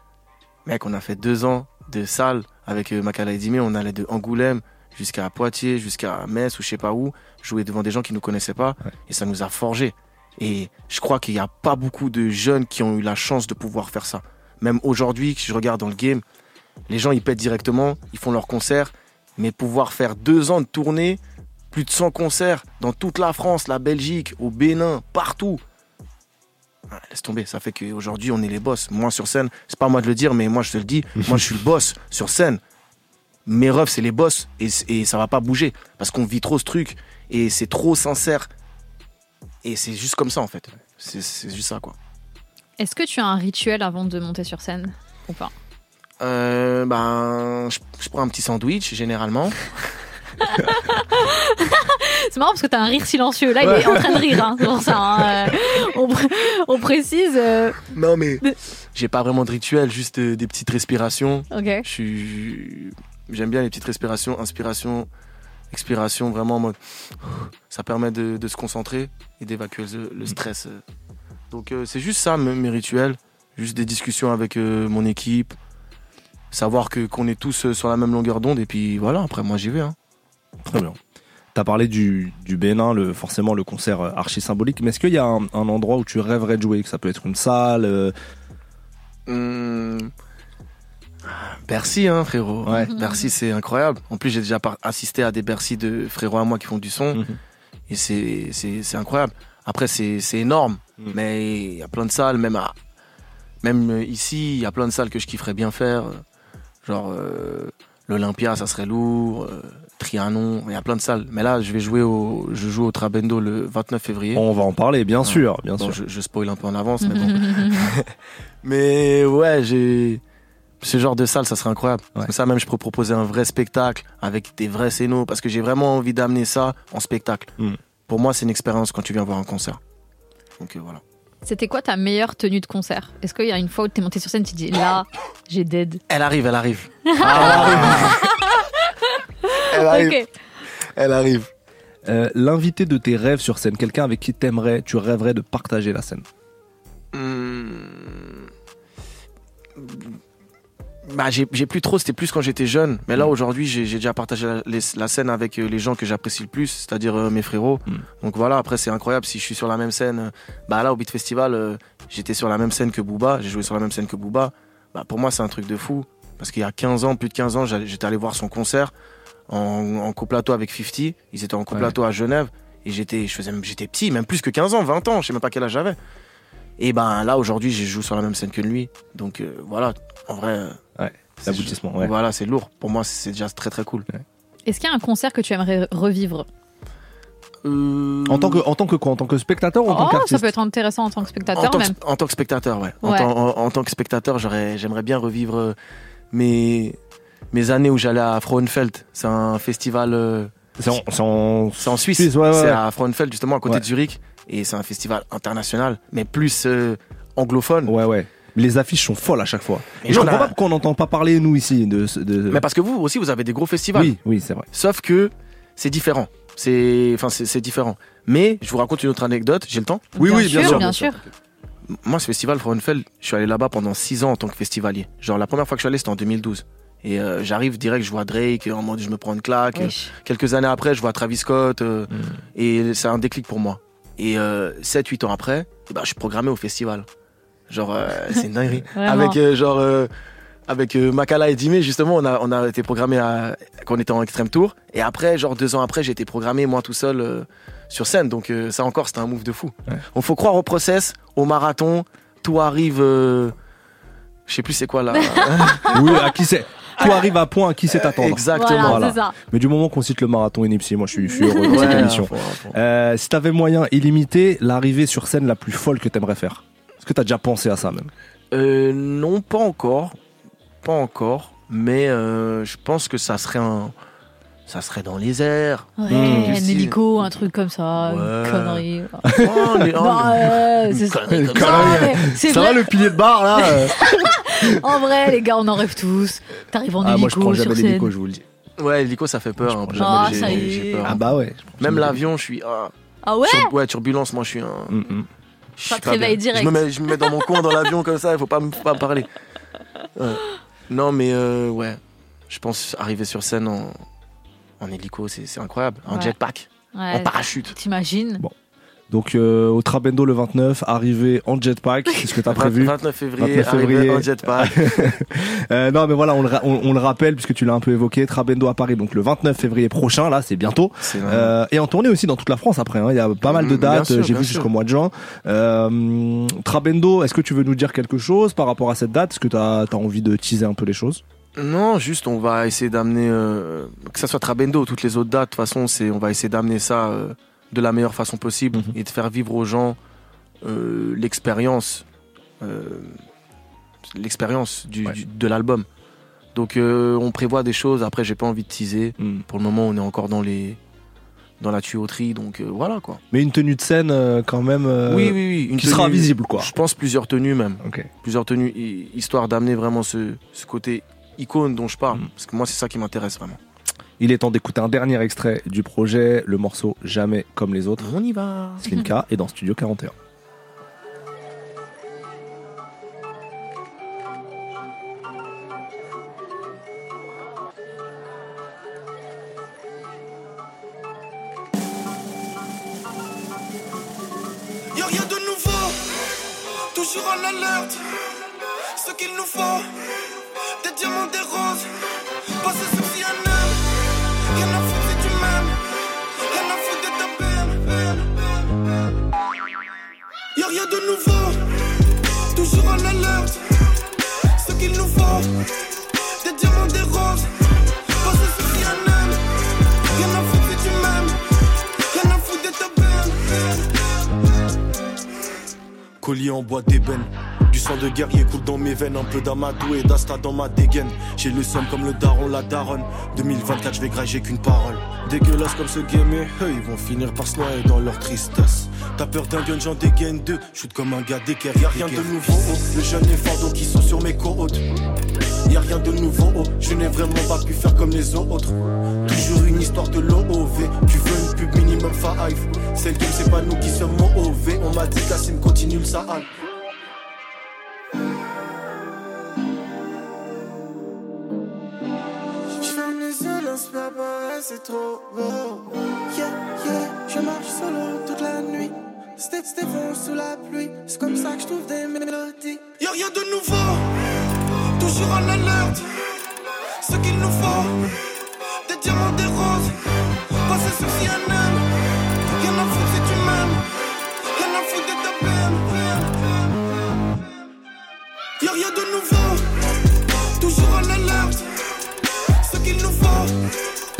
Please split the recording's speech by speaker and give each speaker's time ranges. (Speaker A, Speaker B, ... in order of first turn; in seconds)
Speaker A: 0.7-16.2, 16.9-21.2, 21.7-25.6, 26.9-32.6, 33.5-38.5, 39.6-41.9, 46.2-49.6, 57.9-58.4, 58.9-65.1, 65.7-66.7, 67.7-70.8, 71.5-75.5, 76.5-79.9, 89.3-90.1, 91.2-97.2, 97.9-102.7, 103.6-106.2, 106.8-114.4, 115.2-118.0, 118.6-120.2, 120.8-127.5, 128.1-129.8, 130.6-131.0, 136.1-138.2, 139.7-140.2, 140.9-141.5, 147.1-148.5, 149.8-150.2, 151.1-168.9, 169.5-176.0, 176.8-180.8, 181.4-184.1, 187.6-188.6, 191.5-195.8, 196.3-197.0, 197.5-200.5, 201.8-207.9, 210.0-210.5, 212.5-214.1, 214.7-221.2, 221.9-237.1, 237.7-240.1, 240.7-253.5, 254.5-256.2, 257.9-259.1, 261.7-262.8, 268.5-270.1, 270.8-273.9, 274.7-276.9, 278.0-278.8, 279.4-282.2, 288.8-291.2, 291.8-292.9, 293.4-295.0, 295.8-299.3, 300.1-304.0, 304.8-307.7, 312.5-315.1, 321.0-321.5, 323.4-324.7, 331.6-340.0, 340.6-342.0, 342.6-343.1, 344.1-345.9, 346.5-350.8, 351.6-353.2, 355.1-363.6, 368.0-368.8
Speaker B: 42.8-45.5, 50.5-57.8, 61.5-61.8, 92.9-93.2, 117.0-117.9, 131.4-136.0, 137.1-138.2, 139.5-140.2, 184.7-186.4, 189.9-191.9, 193.0-193.3, 220.2-221.2, 229.7-230.1, 238.9-239.3, 255.2-256.2, 258.5-259.3, 261.3-262.0, 276.0-279.3, 280.0-282.9, 283.6-288.1, 290.0-291.2, 293.2-293.7, 295.9-297.2, 306.9-308.4
Speaker C: 53.6-54.5, 80.6-81.0, 81.5-88.1, 92.7-92.9, 114.3-116.0, 137.2-138.2, 142.0-146.2, 181.0-182.1, 188.3-190.5, 200.8-202.8, 207.8-212.6, 213.9-214.6, 220.2-221.1, 232.1-232.4, 255.9-268.1, 276.1-276.6, 279.3-279.9, 281.3-283.9, 287.0-288.4, 289.6-292.2, 294.9-295.3, 309.1-331.2, 353.3-356.7, 357.8-358.1, 364.2-368.1, 368.8-370.1
Speaker D: 384.9-386.1, 386.9-388.1, 388.9-389.9, 390.8-391.9, 392.6-393.8, 394.5-395.8, 396.5-398.3, 400.6-401.6, 402.5-403.6, 404.6-405.6, 406.4-407.5, 408.2-409.4, 410.1-411.4, 412.1-413.9, 452.7-464.1, 465.0-466.1, 467.0-468.0, 468.8-469.9, 470.6-471.8, 472.6-473.8, 474.5-476.7, 478.6-479.7, 480.6-481.6, 482.6-483.6
Speaker E: 416.2-434.8, 435.6-446.5